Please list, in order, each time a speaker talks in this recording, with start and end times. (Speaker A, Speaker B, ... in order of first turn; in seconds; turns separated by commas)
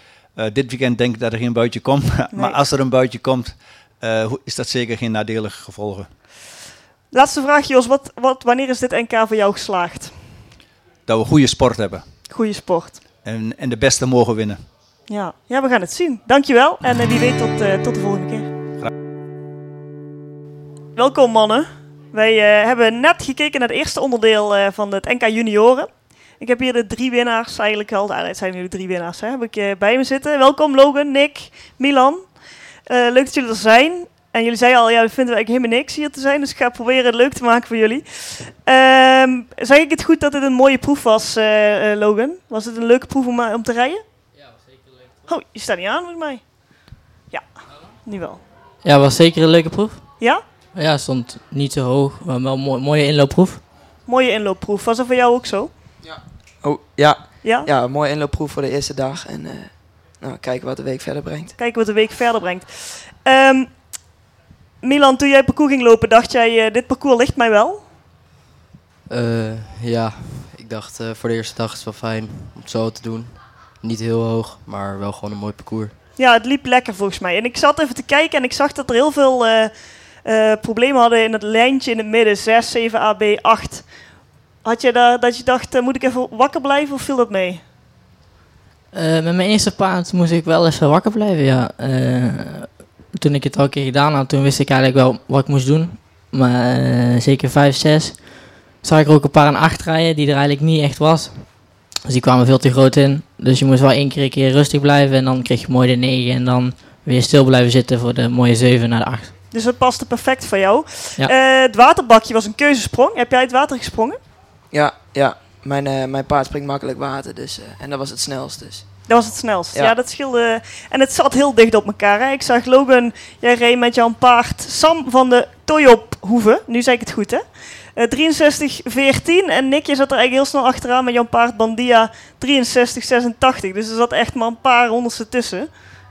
Speaker A: 0.3-6.1, Speaker B: 7.1-10.1, Speaker A: 11.1-12.0, Speaker B: 12.3-13.0, Speaker A: 13.2-14.6, Speaker B: 15.1-18.5, Speaker B: 20.9-32.3, Speaker B: 32.9-38.0, Speaker B: 38.6-44.0, Speaker B: 45.3-46.4, Speaker B: 48.0-48.4, Speaker C: 48.8-50.0, Speaker C: 50.7-53.6, Speaker B: 54.1-55.7, Speaker D: 56.0-61.5, Speaker B: 57.4-57.7, Speaker B: 61.6-62.7, Speaker B: 63.2-63.8, Speaker B: 64.8-67.8, Speaker E: 69.1-76.0, Speaker B: 76.2-79.7, Speaker B: 80.2-83.8, Speaker B: 84.6-87.6, Speaker C: 88.9-109.3, Speaker B: 109.5-114.2, Speaker D: 114.7-119.0, Speaker B: 119.0-127.4, Speaker B: 128.0-135.7